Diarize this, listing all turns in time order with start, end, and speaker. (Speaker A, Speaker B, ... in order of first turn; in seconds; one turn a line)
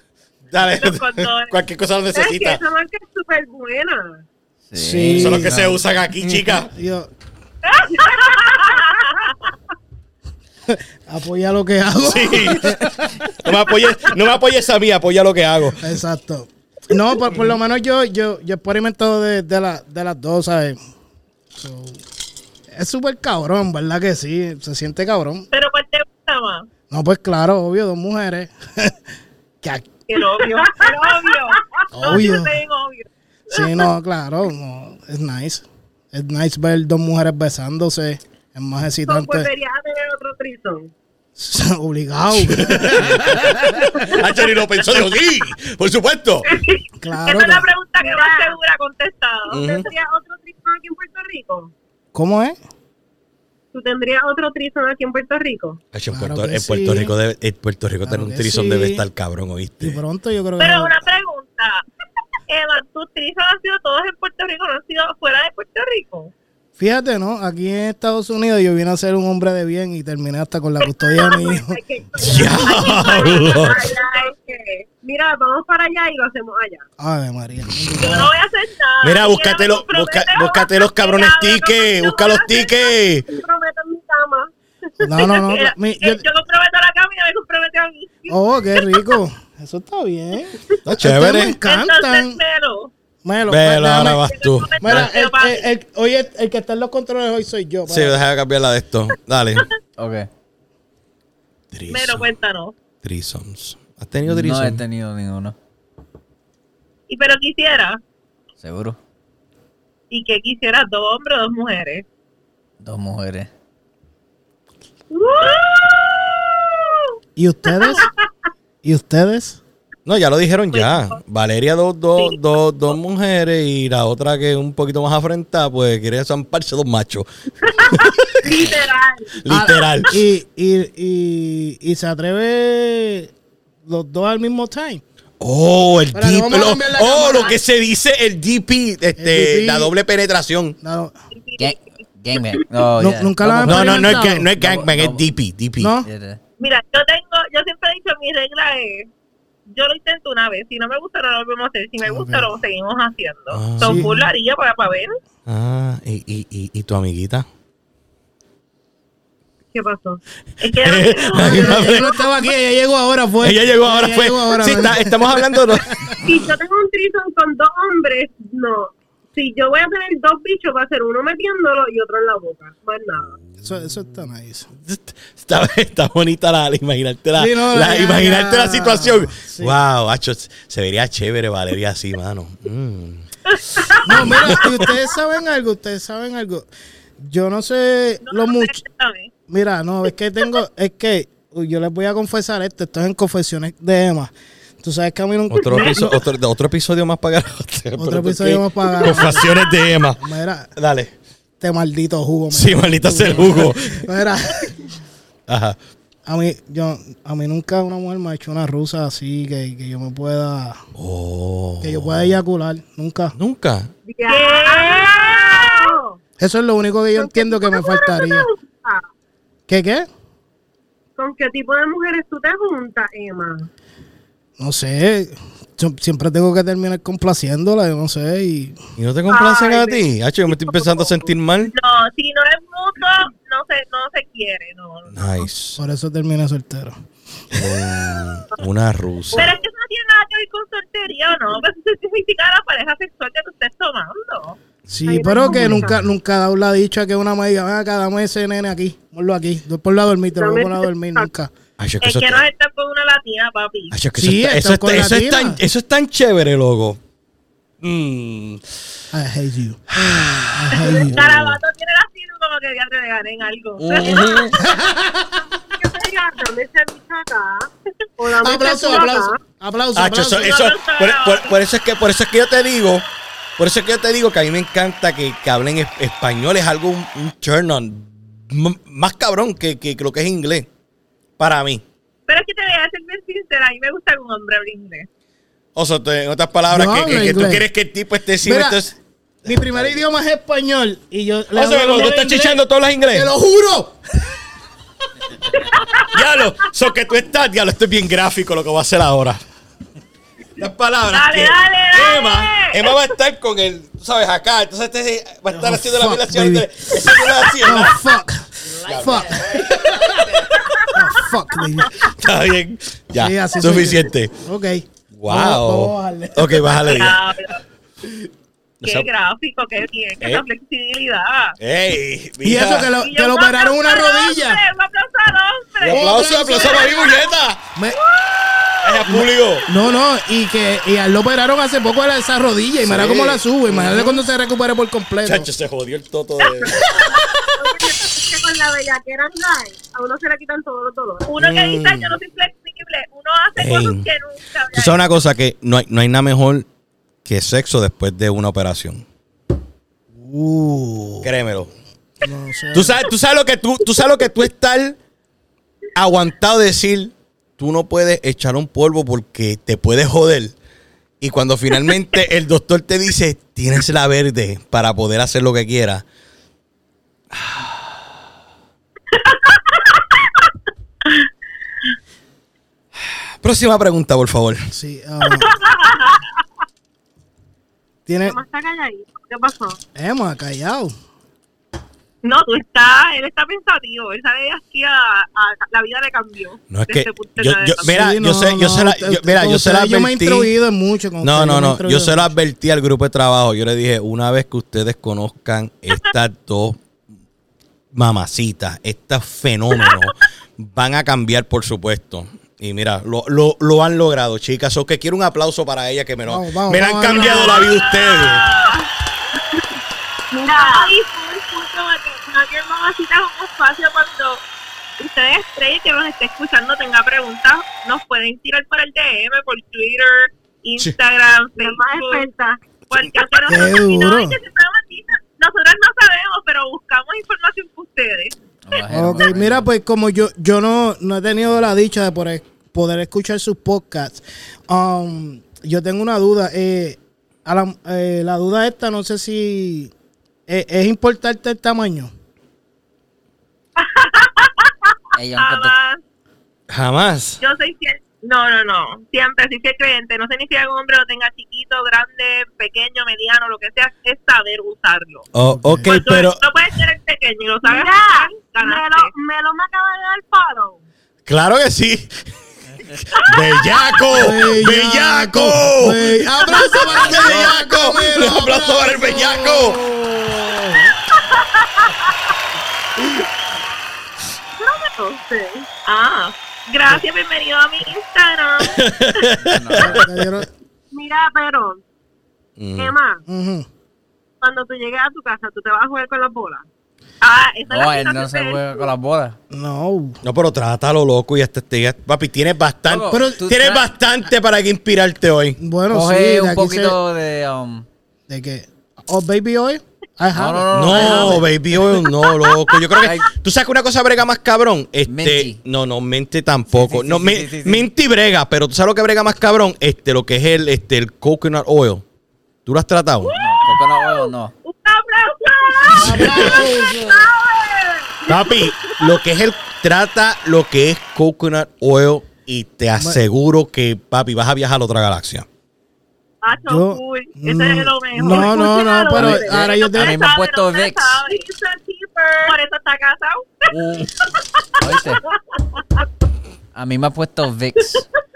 Speaker A: 0.5-2.6
Speaker B: 0.8-1.6
Speaker C: 2.1-4.2
Speaker D: 4.7-5.8
Speaker E: 4.7-5.6
Speaker A: 5.1-6.7
Speaker E: 6.7-7.1
Speaker B: 7.7-9.2
Speaker C: 7.9-9.0
Speaker E: 10.7-13.3
Speaker A: 12.0-15.9
Speaker E: 15.8-20.8
Speaker E: 21.5-22.0
Speaker E: 22.7-25.5
Speaker B: 25.5-26.7
Speaker E: 26.9-29.0
Speaker E: 29.6-29.9
Speaker B: 30.1-33.7
Speaker C: 30.2-31.5
Speaker E: 31.9-32.6
Speaker E: 33.5-39.5
Speaker C: 39.0-40.9
Speaker E: 41.4-43.6
Speaker A: 42.4-46.5
Speaker B: 46.5-49.7
Speaker E: 47.0-47.6
Speaker C: 48.0-48.6
Speaker A: 49.5-49.9
Speaker C: 49.6-51.7
Speaker E: 52.1-52.6
Speaker C: 53.7-55.8
Speaker A: 55.9-60.0
Speaker E: 56.1-57.1
Speaker E: 58.0-59.0
Speaker E: 59.8-61.0
Speaker B: 60.6-61.8
Speaker B: 62.5-66.3
Speaker E: 66.8-71.8
Speaker C: 71.0-76.8
Speaker A: 72.2-73.8
Speaker B: 72.4-74.5
Speaker E: 77.0-78.3
Speaker B: 78.0-82.8
Speaker A: 79.0-83.2
Speaker C: 83.3-84.5
Speaker E: 85.0-86.2
Speaker B: 85.1-89.1
Speaker E: 88.3-92.4
Speaker A: 90.8-91.6
Speaker B: 91.6-92.9
Speaker E: 93.2-94.3
Speaker A: 93.5-95.1
Speaker B: 94.0-95.7
Speaker E: 94.8-98.2
Speaker A: 97.9-99.7
Speaker D: 100.0-100.3
Speaker A: 101.7-102.3
Speaker B: 101.9-102.7
Speaker A: 103.0-104.8
Speaker D: 104.2-105.5
Speaker B: 107.1-108.0
Speaker D: 108.6-109.0
Speaker B: 110.1-112.0
Speaker D: 112.8-113.5
Speaker C: 115.1-115.7
Speaker B: 115.2-117.0
Speaker E: 117.4-118.1
Speaker E: 118.8-119.6
Speaker A: 120.0-127.3
Speaker B: 120.7-121.2
Speaker A: 127.8-128.7
Speaker B: 128.4-129.0
Speaker C: 128.4-129.2
Speaker A: 129.4-130.2
Speaker E: 129.4-133.3
Speaker E: 133.9-135.0
Speaker A: 135.4-140.8
Speaker E: 136.1-137.6
Speaker E: 139.2-139.9
Speaker E: 140.8-141.1
Speaker B: 141.3-141.7
Speaker D: 141.6-145.2
Speaker B: 142.3-142.7
Speaker E: 143.0-144.5
Speaker A: 143.6-145.9
Speaker E: 145.8-146.1
Speaker D: 146.0-146.4
Speaker B: 146.6-149.1
Speaker B: 149.7-155.2
Speaker E: 152.0-152.5
Speaker A: 153.5-154.1
Speaker E: 153.8-154.3
Speaker A: 155.4-157.4
Speaker C: 159.7-160.2
Speaker B: 160.6-162.2
Speaker A: 160.8-162.1
Speaker C: 161.4-162.2
Speaker E: 161.4-166.2
Speaker A: 163.4-166.2
Speaker C: 166.2-173.4
Speaker E: 173.6-174.7
Speaker A: 174.8-183.2
Speaker E: 177.4-179.8
Speaker B: 183.8-184.3
Speaker E: 184.0-186.7
Speaker A: 184.1-184.8
Speaker E: 187.2-188.8
Speaker B: 188.2-189.3
Speaker E: 189.5-196.1
Speaker A: 195.5-200.2
Speaker E: 198.0-199.6
Speaker E: 200.2-200.7
Speaker A: 200.7-201.1
Speaker E: 201.6-204.8
Speaker A: 202.5-204.1
Speaker A: 205.5-205.8
Speaker E: 206.2-210.8
Speaker A: 210.9-212.4
Speaker E: 211.8-213.3
Speaker A: 213.3-213.9
Speaker C: 214.1-216.2
Speaker B: 214.3-216.0
Speaker E: 216.4-218.5
Speaker C: 217.1-219.1
Speaker E: 219.7-220.1
Speaker C: 221.2-223.7
Speaker E: 224.6-228.8
Speaker A: 229.0-231.7
Speaker B: 229.3-230.0
Speaker B: 231.7-235.5
Speaker A: 235.1-235.8
Speaker E: 235.8-236.9
Speaker E: 237.5-238.3
Speaker A: 237.5-239.6
Speaker B: 239.3-244.6
Speaker E: 244.9-251.5
Speaker C: 245.1-246.0
Speaker A: 245.5-245.9
Speaker C: 250.3-251.3
Speaker A: 251.8-252.4
Speaker B: 252.0-253.9
Speaker A: 253.9-257.0
Speaker E: 254.1-255.6
Speaker A: 257.8-258.6
Speaker E: 259.1-261.1
Speaker A: 259.9-261.6
Speaker B: 260.8-264.5
Speaker A: 263.8-264.6
Speaker E: 264.6-265.4
Speaker C: 265.7-269.4
Speaker E: 268.4-270.6
Speaker A: 269.9-273.1
Speaker B: 270.3-271.6
Speaker A: 273.6-280.7
Speaker A: 281.4-281.8
Speaker B: 282.3-285.1
Speaker A: 285.7-288.9
Speaker E: 286.7-287.6
Speaker E: 288.4-288.8
Speaker E: 289.4-292.6
Speaker A: 289.5-290.0
Speaker A: 291.5-293.3
Speaker E: 293.1-294.3
Speaker B: 295.7-296.1
Speaker A: 296.1-299.4
Speaker A: 300.6-308.0
Speaker B: 301.1-302.9
Speaker E: 305.5-310.1
Speaker A: 308.8-310.8
Speaker E: 310.9-312.0
Speaker A: 312.0-314.3
Speaker E: 313.1-317.1
Speaker A: 315.1-317.2
Speaker B: 316.9-317.6
Speaker A: 318.8-319.1
Speaker B: 318.8-321.6
Speaker A: 321.6-322.9
Speaker E: 322.4-324.6
Speaker B: 323.0-327.3
Speaker A: 325.8-327.6
Speaker E: 325.9-327.1
Speaker B: 327.9-329.0
Speaker A: 328.8-329.7
Speaker E: 329.0-335.5
Speaker A: 332.8-334.2
Speaker A: 335.2-337.5
Speaker C: 336.8-341.3
Speaker B: 341.2-345.0
Speaker A: 341.4-342.1
Speaker A: 343.6-344.1
Speaker A: 344.7-346.6
Speaker A: 347.2-349.1
Speaker E: 350.2-351.3
Speaker A: 351.2-351.7
Speaker E: 352.2-353.0
Speaker A: 352.7-355.0
Speaker A: 355.9-360.6
Speaker A: 361.2-366.0
Speaker B: 369.1-370.0
Speaker A: 373.4-374.7
Speaker E: 374.7-375.5
Speaker B: 375.2-376.2
Speaker E: 378.1-378.4
Speaker C: 378.2-379.8
Speaker E: 379.9-380.9
Speaker B: 382.2-388.0
Speaker A: 386.7-390.5
Speaker E: 387.8-392.3
Speaker A: 391.2-396.8
Speaker A: 397.9-408.4
Speaker E: 406.3-407.7
Speaker B: 407.1-408.9
Speaker C: 410.3-410.9
Speaker B: 410.6-414.4
Speaker B: 415.0-422.2
Speaker C: 421.6-422.6
Speaker B: 422.9-428.3
Speaker E: 423.5-424.4
Speaker D: 428.6-429.7
Speaker E: 428.9-439.9
Speaker E: 440.5-442.1
Speaker B: 443.8-444.7
Speaker D: 445.1-445.7
Speaker B: 445.3-446.0
Speaker A: 446.7-447.4
Speaker B: 447.4-455.2
Speaker A: 455.3-456.4
Speaker E: 455.5-455.9
Speaker B: 455.8-459.1
Speaker C: 457.6-460.8
Speaker A: 461.3-462.2
Speaker A: 462.9-469.8
Speaker E: 464.1-470.9
Speaker C: 474.6-475.7
Speaker B: 475.8-478.9
Speaker A: 478.6-480.2
Speaker D: 479.4-480.1
Speaker E: 479.8-480.5
Speaker C: 480.9-481.8
Speaker A: 482.6-482.9
Speaker C: 482.8-483.2
Speaker E: 483.3-483.6
Speaker C: 484.4-486.6
Speaker B: 487.2-488.9
Speaker D: 487.7-489.4
Speaker E: 489.5-490.2
Speaker A: 490.2-495.6
Speaker D: 492.9-493.9
Speaker E: 493.1-493.4
Speaker E: 495.6-497.0
Speaker D: 495.9-497.8
Speaker E: 498.3-501.5
Speaker D: 500.3-501.5
Speaker A: 500.7-512.0
Speaker B: 502.2-502.6
Speaker D: 502.9-503.3
Speaker D: 505.1-505.6
Speaker D: 506.7-507.9
Speaker A: 512.6-513.3
Speaker B: 513.2-517.9
Speaker D: 513.3-514.5
Speaker E: 516.0-517.3
Speaker A: 516.0-516.6
Speaker C: 517.3-518.5
Speaker A: 518.3-525.5
Speaker B: 526.4-531.4
Speaker E: 526.7-530.2
Speaker C: 528.2-529.8
Speaker D: 529.1-531.2
Speaker C: 531.3-532.5
Speaker B: 532.4-533.8
Speaker A: 533.7-534.1
Speaker B: 534.5-535.2
Speaker D: 534.8-535.2
Speaker D: 536.7-538.0